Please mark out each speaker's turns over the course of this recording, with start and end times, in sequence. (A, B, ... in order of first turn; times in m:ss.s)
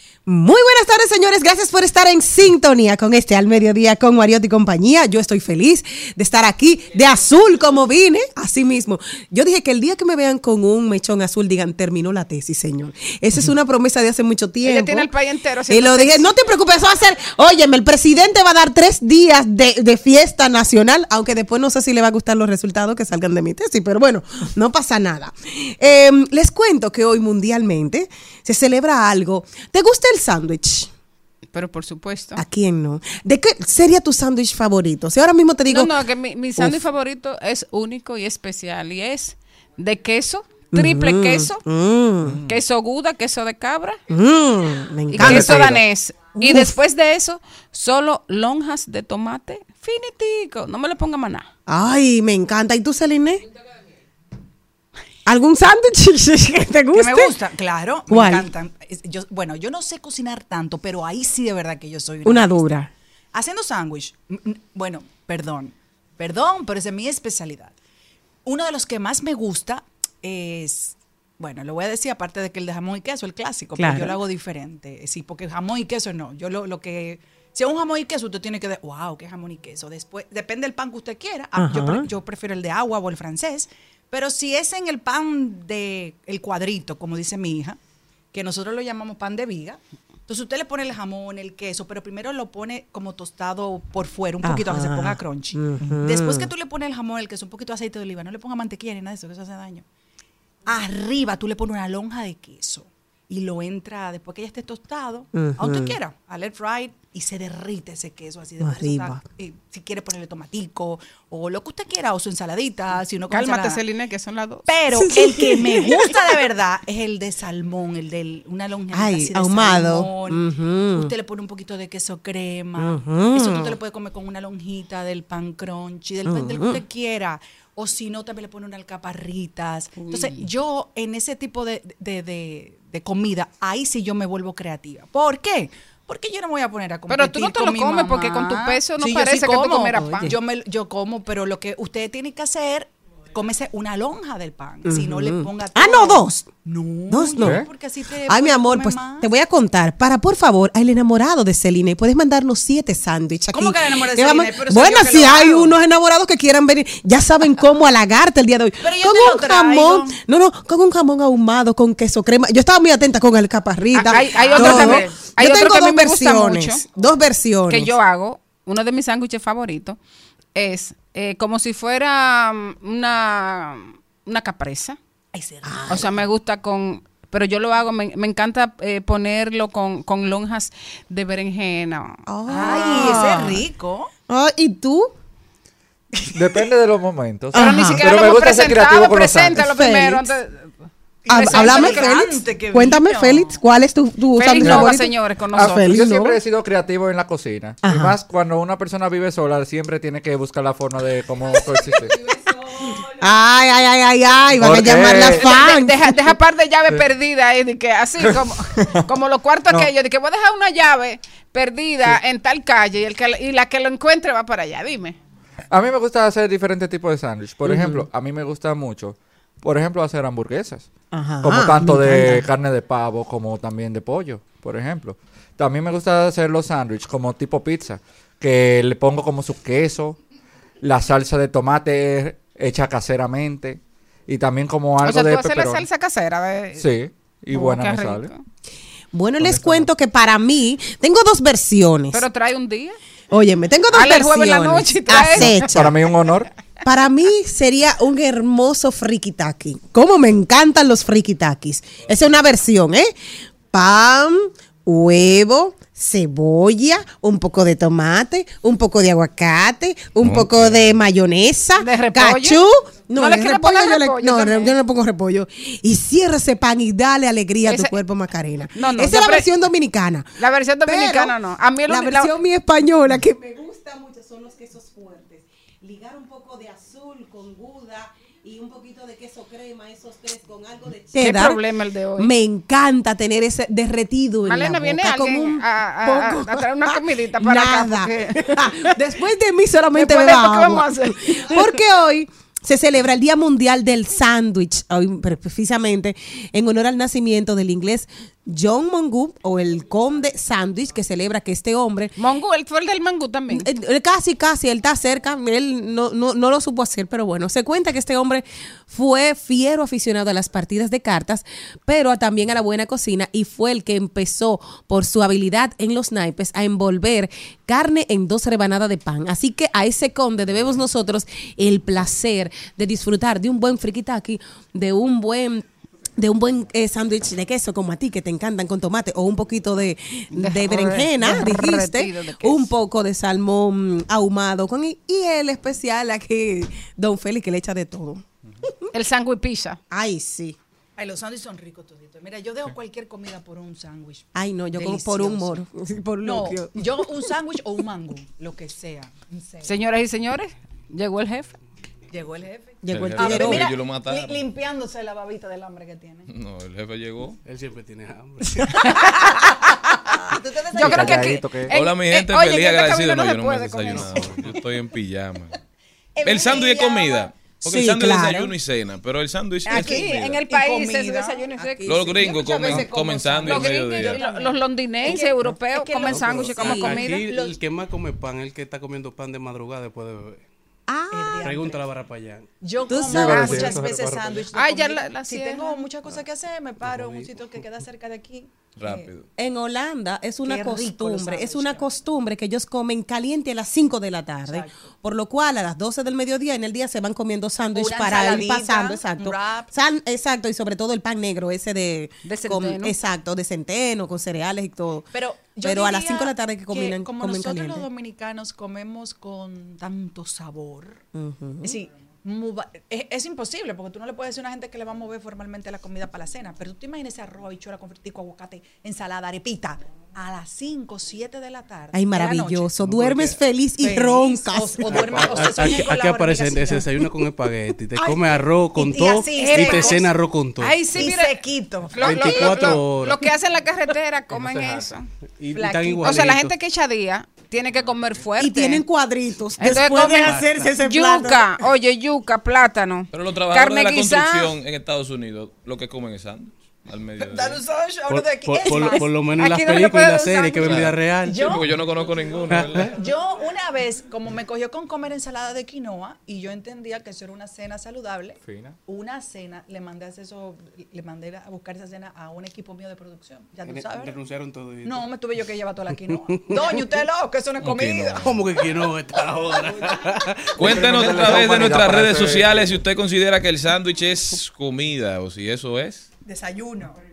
0:00.3-0:15.1 A
0:14.6-0:16.3 B
0:15.7-0:30.9 A
0:31.5-0:32.4 B
0:32.4-0:36.0 A
0:35.7-0:41.6 B
0:40.7-0:42.4 A
0:42.5-0:44.0 B
0:44.1-0:45.8 A
0:45.1-0:51.5 B
0:45.2-0:45.7 C
0:46.4-0:46.7 A
0:51.7-0:53.4 A
0:55.3-0:57.4 A
0:56.9-1:02.7 D
0:58.1-0:58.5 A
1:02.2-1:02.9 A
1:03.3-1:07.7 D
1:08.4-1:27.8 D
1:13.8-1:14.2 A
1:21.6-1:22.1 A
1:28.3-1:39.8 D
1:34.4-1:36.5 A
1:40.7-1:53.8 D
1:45.3-1:46.0 A
1:48.6-1:49.2 A
1:53.3-1:54.7 B
1:54.7-2:00.4 D
1:54.9-1:56.4 A
1:58.9-2:01.1 A
2:00.9-2:29.3 D
2:02.8-2:03.8 A
2:06.3-2:06.8 A
2:10.0-2:10.4 B
2:17.1-2:20.3 B
2:20.0-2:20.4 A
2:24.9-2:26.5 A
2:27.1-2:27.7 A
2:27.4-2:27.6 C
2:28.3-2:47.9 A
2:33.5-2:35.8 D
2:38.8-2:40.2 D
2:43.9-2:46.8 B
2:44.1-2:45.2 D
2:47.7-2:50.0 B
2:50.6-2:55.0 B
2:55.3-2:56.0 D
2:55.6-2:56.1 A
2:55.9-3:03.4 B
3:02.3-3:03.6 A
3:02.5-3:04.1 D
3:04.3-3:05.1 A
3:06.3-3:09.7 C
3:07.5-3:08.0 A
3:07.6-3:10.8 B
3:09.6-3:10.3 A
3:11.3-3:13.6 D
3:11.3-3:16.4 A
3:11.3-3:12.2 B
3:14.4-3:15.9 B
3:14.6-3:14.9 C
3:15.6-3:22.2 C
3:17.8-3:18.1 A
3:22.2-3:26.3 A
3:24.6-3:25.5 C
3:25.4-3:35.2 B
3:35.7-3:40.9 C
3:37.7-3:38.0 A
3:41.1-3:42.4 A
3:41.4-3:50.2 C
3:50.8-3:55.8 C
3:55.0-3:56.9 B
3:56.8-3:58.3 C
3:57.5-3:58.4 B
3:59.1-4:02.2 A
3:59.4-3:59.9 C
4:02.1-4:03.0 B
4:03.3-4:06.0 A
4:03.9-4:05.7 B
4:05.5-4:06.5 C
4:06.8-4:13.1 A
4:13.7-4:30.3 A
4:20.2-4:21.0 E
4:21.8-4:22.6 B
4:23.2-4:24.8 B
4:27.7-4:28.0 B
4:28.7-4:29.5 B
4:30.4-4:32.3 B
4:30.8-4:31.4 A
4:31.9-4:41.6 A
4:41.2-4:42.3 B
4:42.2-5:02.1 A
4:44.4-4:49.0 B
4:49.9-4:51.7 B
5:02.2-5:03.7 B
5:03.5-5:25.6 A
5:26.2-5:38.8 A
5:30.3-5:32.7 B
5:38.9-5:39.8 B
5:39.9-5:40.6 A
5:41.0-5:45.6 D
5:44.4-5:47.1 A
5:46.2-5:49.7 D
5:49.6-5:51.5 B
5:52.1-5:56.3 D
5:52.8-5:53.7 A
5:52.9-5:54.4 E
5:56.3-5:57.4 E
5:57.5-5:58.6 F
5:58.8-6:01.4 D
6:00.8-6:04.2 B
6:00.8-6:01.7 C
6:01.7-6:05.6 E
6:06.2-6:07.3 D
6:06.2-6:10.4 E
6:07.7-6:08.5 A
6:09.7-6:11.4 D
6:09.7-6:11.8 B
6:09.7-6:10.0 A
6:11.6-6:13.4 A
6:11.9-6:14.2 E
6:12.2-6:17.6 D
6:13.4-6:17.2 B
6:16.1-6:20.5 F
6:20.9-6:21.4 A
6:21.1-6:21.8 D
6:21.4-6:22.5 F
6:22.6-6:29.1 D
6:22.9-6:23.6 A
6:23.1-6:24.5 C
6:23.3-6:23.8 B
6:24.5-6:25.8 B
6:26.8-6:27.4 F
6:28.8-6:29.3 E
6:29.4-6:45.1 A
6:30.4-6:31.9 D
6:34.5-6:34.7 D
6:37.7-6:39.7 D
6:42.2-6:43.0 B
6:45.1-6:51.0 D
6:45.6-6:47.9 A
6:51.1-6:51.8 A
6:51.6-7:06.9 D
7:01.9-7:05.8 A
7:02.8-7:03.3 F
7:04.9-7:10.8 F
7:08.0-7:08.2 A
7:08.8-7:10.1 D
7:09.4-7:10.0 B
7:10.6-7:11.4 B
7:11.0-7:12.8 D
7:11.9-7:18.8 B
7:12.0-7:13.3 F
7:14.4-7:14.8 F
7:15.4-7:16.5 F
7:18.4-7:21.5 A
7:19.6-7:24.5 B
7:20.3-7:20.6 F
7:23.1-7:27.6 E
7:27.2-7:29.2 D
7:28.1-7:31.7 F
7:29.4-7:30.7 B
7:30.6-7:33.0 E
7:31.2-7:31.6 D
7:32.5-7:32.9 F
7:32.8-7:44.2 D
7:38.4-7:38.8 C
7:43.6-7:45.1 F
7:44.8-7:48.2 D
7:46.3-7:46.9 F
7:47.6-7:48.4 E
7:48.2-7:51.2 F
7:50.6-7:56.1 E
7:50.6-7:52.7 C
7:56.2-7:57.0 D